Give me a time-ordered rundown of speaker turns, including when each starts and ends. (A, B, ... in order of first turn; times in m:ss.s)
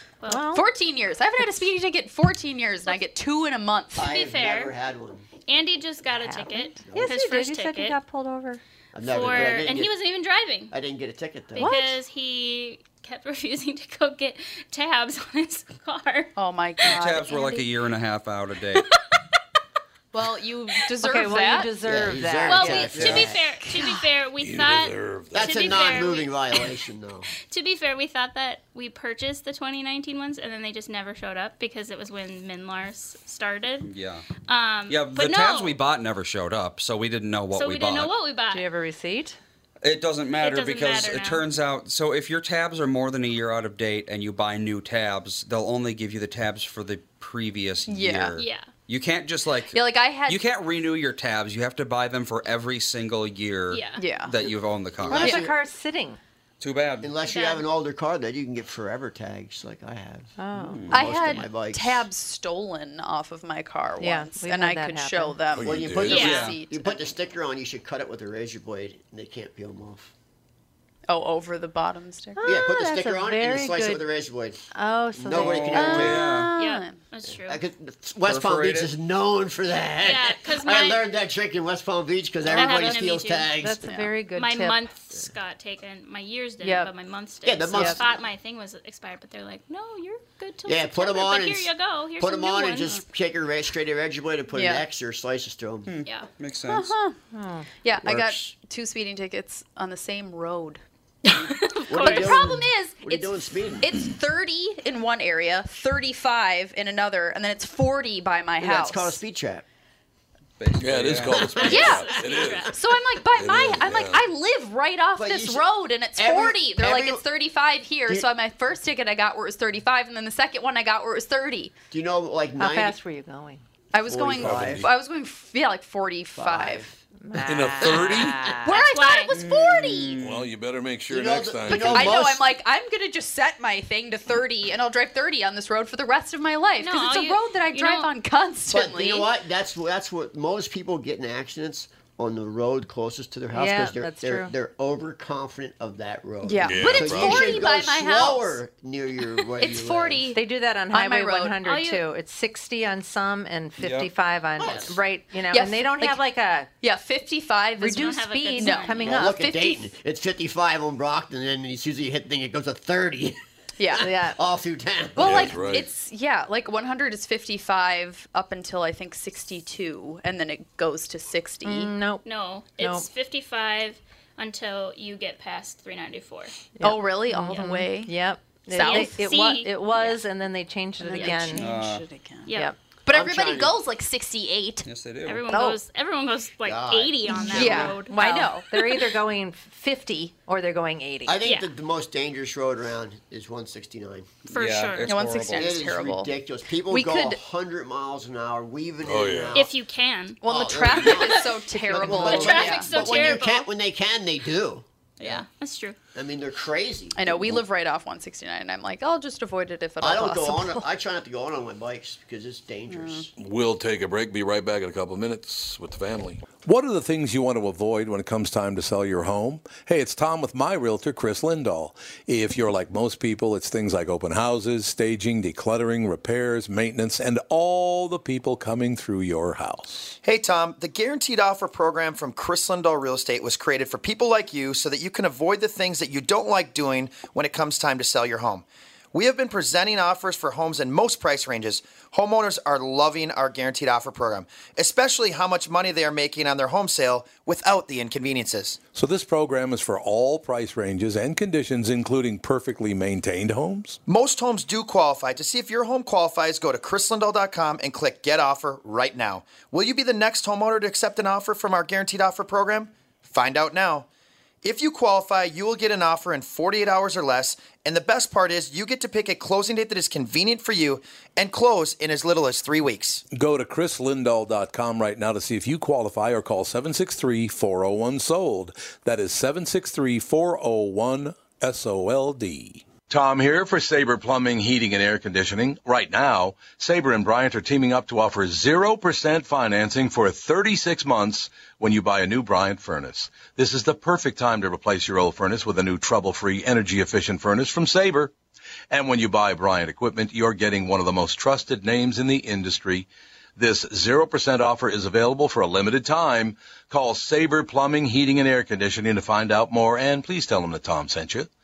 0:00.2-0:00.4 A
0:00.3-0:00.6 B
0:00.5-0:04.2 C
0:04.0-0:05.3 D
0:04.0-0:04.7 A
0:05.5-0:08.0 A
0:06.1-0:08.6 B
0:06.8-0:07.2 D
0:08.9-0:09.9 D
0:09.0-0:10.7 A
0:10.7-0:11.8 D
0:11.6-0:16.3 A
0:11.6-0:12.0 B
0:16.4-0:17.7 C
0:16.8-0:18.8 E
0:20.1-0:21.7 C
0:21.0-0:24.1 B
0:21.8-0:23.4 D
0:22.5-0:26.7 A
0:22.9-0:23.3 E
0:24.4-0:26.0 F
0:25.3-0:27.3 D
0:27.5-0:33.9 A
0:33.8-0:34.2 E
0:34.5-0:35.8 A
0:34.9-0:38.1 E
0:37.5-0:38.7 A
0:38.5-0:39.4 B
0:39.8-0:55.4 E
0:40.4-0:41.4 A
0:47.9-0:48.3 C
0:48.4-0:48.7 A
0:49.7-0:50.5 C
0:53.7-0:54.1 A
0:54.0-0:54.4 C
0:55.0-0:55.5 D
0:55.1-0:56.2 B
0:56.6-0:57.1 E
0:57.0-1:00.3 D
0:57.2-0:57.6 A
1:00.4-1:00.9 B
1:00.5-1:01.0 E
1:00.9-1:02.1 D
1:00.9-1:07.1 C
1:04.0-1:05.4 B
1:05.5-1:06.2 F
1:05.6-1:10.1 D
1:06.0-1:06.5 A
1:06.1-1:06.6 E
1:11.1-1:12.4 C
1:12.4-1:14.0 B
1:12.4-1:16.3 D
1:14.7-1:16.4 B
1:15.3-1:16.5 E
1:15.7-1:17.0 C
1:16.6-1:17.6 A
1:17.4-1:23.8 D
1:18.2-1:18.9 E
1:20.0-1:21.1 A
1:22.4-1:23.1 B
1:22.5-1:23.5 A
1:23.6-1:24.8 B
1:23.8-1:24.2 C
1:24.3-1:33.0 A
1:26.6-1:26.9 C
1:27.4-1:28.2 D
1:30.6-1:35.9 D
1:34.5-1:34.9 C
1:35.8-1:36.9 E
1:36.0-1:36.3 A
1:36.6-1:37.2 C
1:37.3-1:37.7 B
1:37.8-1:40.8 C
1:38.0-1:38.5 D
1:41.2-1:42.6 A
1:41.8-1:49.2 C
1:41.9-1:44.0 D
1:48.6-1:49.6 D
1:50.6-1:51.6 E
1:50.8-1:52.7 F
1:51.5-1:52.9 A
1:51.6-1:52.0 D
1:51.6-2:01.7 C
1:53.3-1:54.2 F
1:55.2-1:57.2 D
2:01.9-2:03.0 D
2:02.6-2:03.6 B
2:03.9-2:06.9 C
2:04.0-2:04.9 D
2:04.4-2:04.9 F
2:06.3-2:06.9 D
2:07.2-2:08.8 B
2:07.4-2:08.5 F
2:07.8-2:08.4 D
2:08.6-2:10.2 C
2:08.7-2:09.4 A
2:09.3-2:10.5 E
2:10.2-2:12.2 F
2:11.1-2:12.5 D
2:11.7-2:19.3 C
2:16.8-2:18.1 A
2:18.7-2:30.2 D
2:23.5-2:24.5 B
2:26.4-2:28.6 C
2:26.6-2:27.6 F
2:29.6-2:31.6 C
2:30.3-2:36.7 B
2:31.6-2:32.0 A
2:33.8-2:34.1 E
2:34.6-2:35.0 D
2:34.6-2:34.9 A
2:35.5-2:36.2 C
2:36.8-2:39.8 C
2:37.8-2:39.6 B
2:37.8-2:39.1 A
2:39.0-2:45.6 D
2:43.8-2:44.1 C
2:43.9-2:44.4 B
2:45.2-2:51.9 C
2:45.2-2:45.9 F
2:51.6-2:52.2 B
2:52.2-2:56.6 A
2:52.8-2:53.1 B
2:56.8-3:01.6 B
2:56.8-2:59.4 C
2:58.8-2:59.8 A
3:01.0-3:04.9 C
3:01.2-3:01.5 A
3:01.5-3:02.0 E
3:02.4-3:02.7 A
3:03.1-3:03.8 D
3:04.8-3:05.5 E
3:05.2-3:08.2 A
3:05.5-3:05.8 B
3:06.6-3:07.9 D
3:07.3-3:11.4 B
3:07.4-3:09.1 C
3:11.2-3:14.3 D
3:11.4-3:11.7 A
3:14.5-3:16.0 E
3:14.5-3:15.2 A
3:15.0-3:17.4 C
3:15.5-3:19.7 D
3:19.0-3:19.6 F
3:19.5-3:20.4 A
3:20.4-3:23.0 C
3:20.4-3:24.8 D
3:21.1-3:21.4 A
3:22.1-3:23.7 A
3:25.2-3:26.0 A
3:26.1-3:27.6 D
3:27.1-3:30.9 C
3:30.0-3:33.3 D
3:32.9-3:33.3 C
3:33.4-3:50.1 F
3:50.2-4:08.8 G
4:08.9-4:14.0 F
4:14.1-4:24.1 G
4:24.6-4:33.2 G
4:33.3-4:58.3 F
4:58.9-5:11.5 F